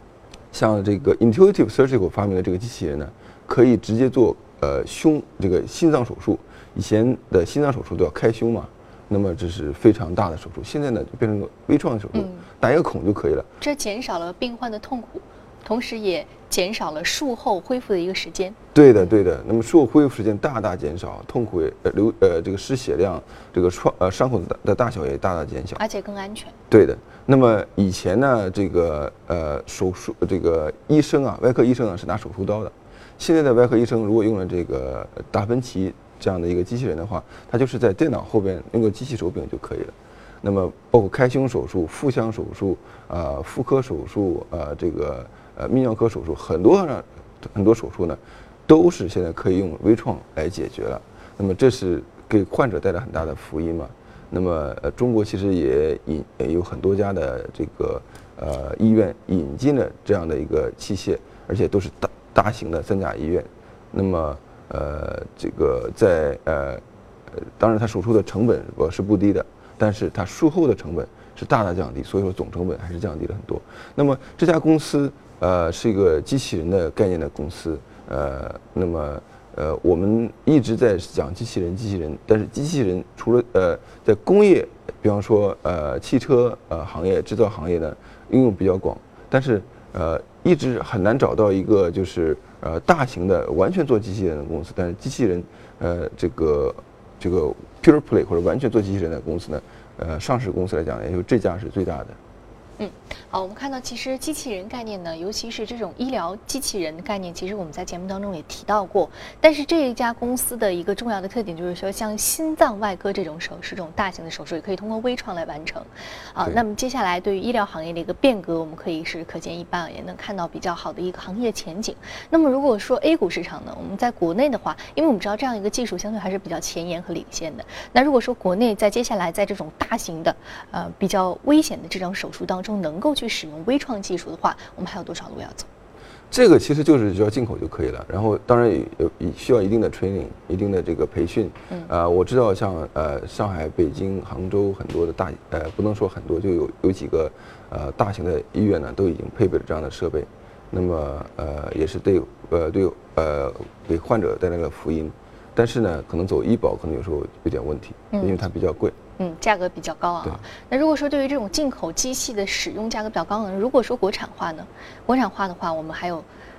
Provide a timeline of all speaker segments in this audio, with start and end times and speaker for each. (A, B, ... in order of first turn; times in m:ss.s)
0:00.5-0:13.5 A
0:12.1-0:12.5 B
0:13.6-0:19.2 B
0:18.7-0:25.8 A
0:25.8-0:26.6 B
0:26.7-1:42.2 A
1:42.8-2:15.7 B
2:16.3-2:39.0 A
2:38.1-2:38.4 B
2:39.2-2:46.3 B